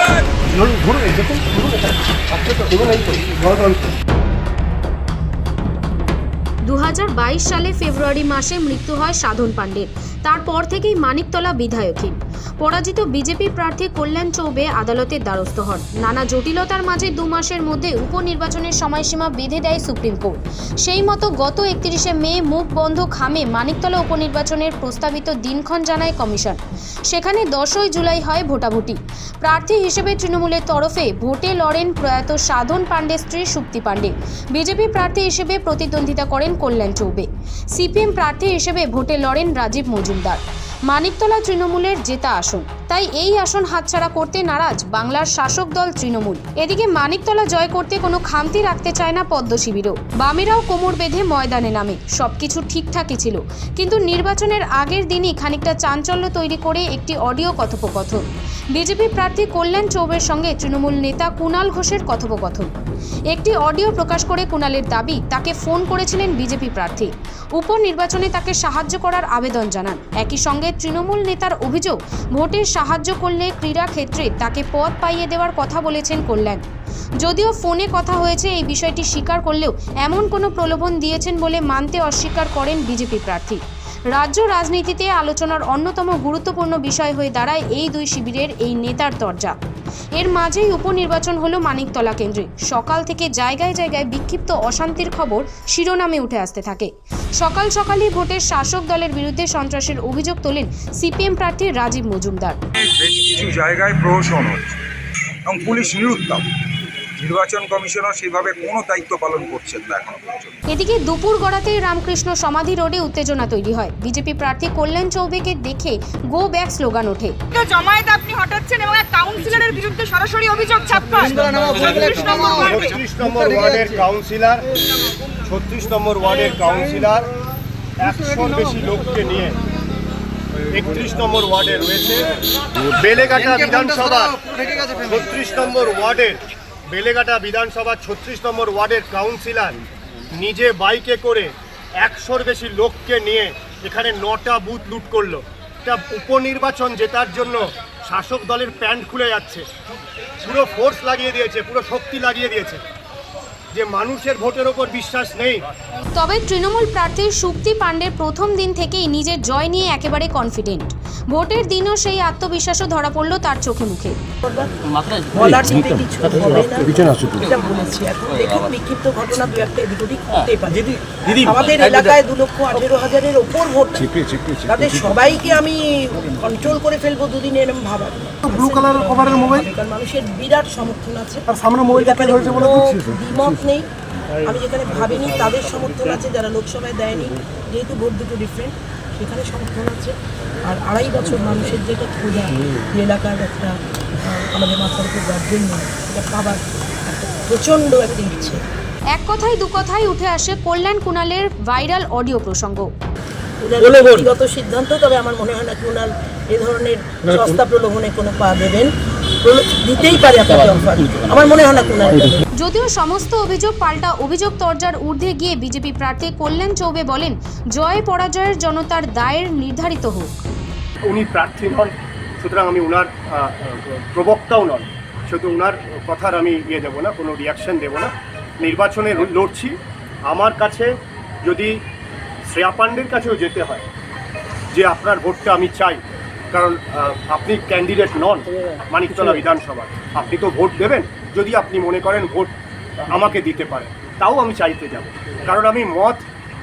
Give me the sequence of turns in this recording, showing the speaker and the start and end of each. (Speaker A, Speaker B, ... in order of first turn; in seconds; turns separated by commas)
Speaker A: 0.5-3.8, Speaker B: 6.6-62.7, Speaker B: 63.3-76.6, Speaker B: 77.2-89.6, Speaker B: 90.2-102.6, Speaker C: 102.8-104.7, Speaker C: 105.5-106.5, Speaker C: 107.2-110.6, Speaker B: 110.7-117.4, Speaker D: 117.5-123.0, Speaker A: 121.3-124.7, Speaker A: 125.5-127.3, Speaker A: 128.0-129.6, Speaker A: 130.7-132.3, Speaker A: 132.9-134.4, Speaker A: 135.0-139.8, Speaker A: 140.4-149.7, Speaker A: 150.4-152.8, Speaker A: 153.7-155.7, Speaker B: 156.1-164.2, Speaker E: 164.4-164.7, Speaker E: 165.3-170.9, Speaker E: 171.4-183.9, Speaker E: 184.4-198.6, Speaker B: 199.1-202.9, Speaker E: 203.6-208.9, Speaker E: 209.4-212.4, Speaker B: 212.6-220.3, Speaker A: 221.1-229.8, Speaker A: 230.3-230.9, Speaker A: 231.4-231.8, Speaker A: 232.5-233.8, Speaker A: 234.7-236.0, Speaker A: 236.5-242.5, Speaker A: 243.1-246.2